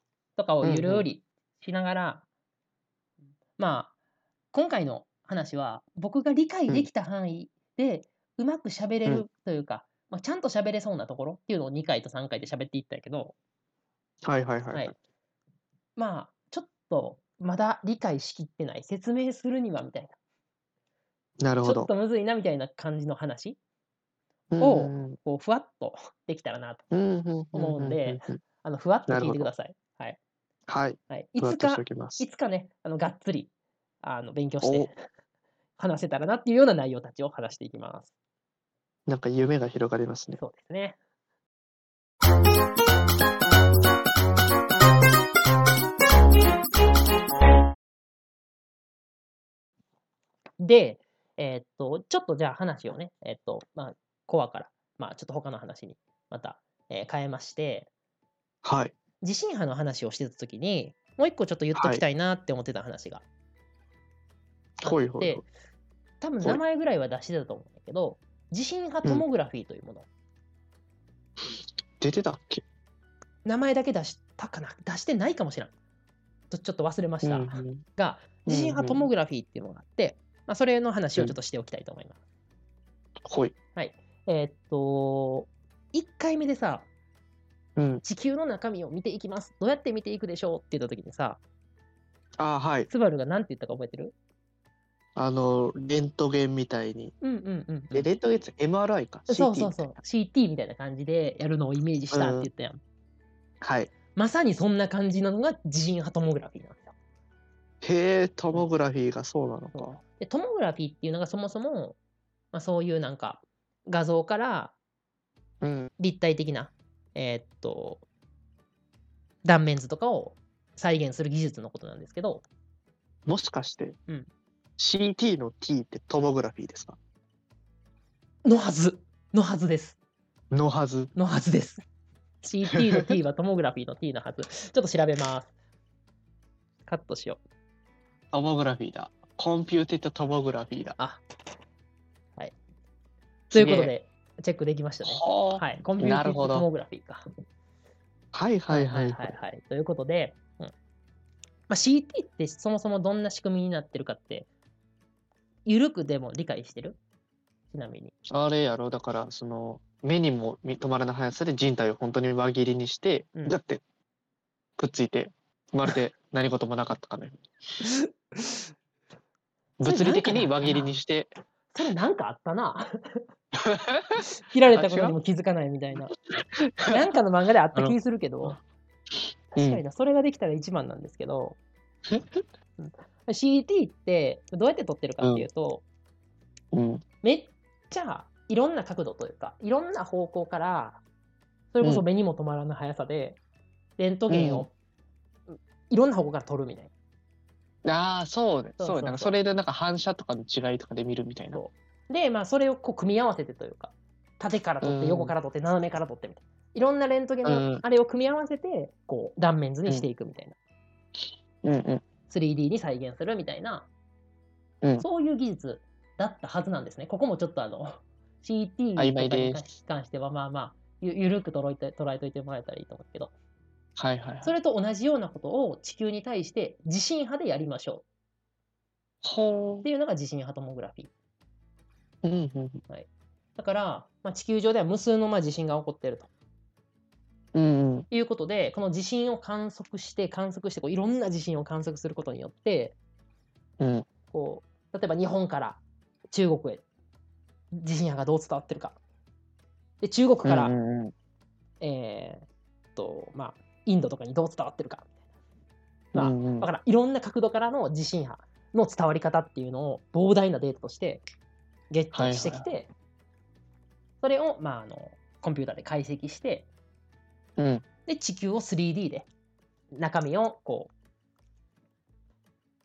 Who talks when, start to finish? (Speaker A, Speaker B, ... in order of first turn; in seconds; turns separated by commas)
Speaker A: 0.4-2.2, Speaker B: 0.6-1.1, Speaker A: 3.6-3.9, Speaker A: 4.5-13.3, Speaker B: 14.2-14.9, Speaker A: 16.0-20.2, Speaker B: 21.4-21.9, Speaker A: 21.6-23.6, Speaker B: 24.5-25.2, Speaker A: 24.6-26.8, Speaker B: 26.9-28.4, Speaker A: 27.5-30.2, Speaker B: 29.1-29.5, Speaker B: 30.7-32.2, Speaker A: 31.1-33.5, Speaker A: 34.0-34.9, Speaker B: 34.6-34.9, Speaker A: 35.8-38.1, Speaker B: 39.1-40.4, Speaker A: 40.4-41.0, Speaker A: 50.6-57.9, Speaker B: 58.6-58.9, Speaker A: 59.2-63.2, Speaker B: 61.8-62.0, Speaker B: 64.8-65.4, Speaker A: 64.8-65.5, Speaker A: 66.2-70.1, Speaker B: 71.5-72.6, Speaker A: 73.5-75.7, Speaker A: 76.5-82.2, Speaker B: 77.2-77.8, Speaker B: 78.5-79.1, Speaker B: 83.3-83.5, Speaker A: 83.8-86.9, Speaker B: 87.8-88.0, Speaker A: 88.0-91.4, Speaker B: 92.4-92.9, Speaker A: 92.9-94.2, Speaker B: 95.2-97.1, Speaker A: 97.2-98.1, Speaker B: 97.9-99.9, Speaker A: 99.3-102.8, Speaker B: 102.1-102.5, Speaker B: 103.6-103.9, Speaker A: 104.1-106.9, Speaker B: 107.8-110.0, Speaker A: 109.7-112.0, Speaker A: 112.5-114.8, Speaker B: 115.6-115.9, Speaker A: 116.0-118.0, Speaker A: 119.4-122.4, Speaker B: 123.3-124.0, Speaker B: 124.8-127.0, Speaker A: 128.4-130.0, Speaker B: 130.5-131.1, Speaker A: 131.2-131.8, Speaker A: 132.4-135.5, Speaker B: 132.7-133.1, Speaker A: 136.9-137.4, Speaker B: 138.3-141.0, Speaker B: 143.5-143.9, Speaker A: 143.5-147.2, Speaker B: 145.1-146.7, Speaker B: 148.3-149.4, Speaker A: 148.7-150.7, Speaker A: 151.7-154.5, Speaker A: 155.7-157.0, Speaker A: 157.7-158.1, Speaker B: 158.3-163.8, Speaker B: 164.8-167.4, Speaker A: 167.8-168.7, Speaker B: 169.8-171.3, Speaker A: 169.8-170.9, Speaker A: 171.7-173.2, Speaker B: 173.6-175.2, Speaker A: 174.4-176.1, Speaker B: 176.6-177.1, Speaker A: 176.9-178.6, Speaker B: 177.8-178.5, Speaker A: 179.5-181.6, Speaker B: 179.6-179.8, Speaker B: 182.1-182.4, Speaker A: 182.8-185.8, Speaker B: 185.2-185.5, Speaker B: 186.7-187.0, Speaker A: 187.2-191.0, Speaker A: 191.7-193.4, Speaker A: 194.0-194.7, Speaker B: 194.3-194.7, Speaker A: 195.5-196.9, Speaker B: 197.8-201.6, Speaker A: 198.8-199.4, Speaker A: 201.5-210.6, Speaker B: 204.8-205.3, Speaker B: 207.4-207.8, Speaker B: 211.6-212.1, Speaker A: 212.3-213.9, Speaker A: 215.0-223.3, Speaker B: 219.0-219.7, Speaker B: 224.0-224.6, Speaker A: 224.4-228.0, Speaker B: 229.2-229.9, Speaker A: 229.8-231.1, Speaker B: 232.2-232.8, Speaker A: 232.9-236.3, Speaker B: 237.5-238.1, Speaker A: 238.1-243.0, Speaker B: 243.8-244.1, Speaker A: 244.3-246.8, Speaker A: 247.7-249.0, Speaker A: 250.0-250.8, Speaker B: 250.4-251.1, Speaker A: 251.8-255.1, Speaker A: 256.1-261.2, Speaker B: 256.1-256.7, Speaker A: 261.9-262.9, Speaker B: 262.1-262.7, Speaker A: 264.2-266.7, Speaker B: 267.6-267.8, Speaker A: 268.1-269.3, Speaker A: 269.9-270.9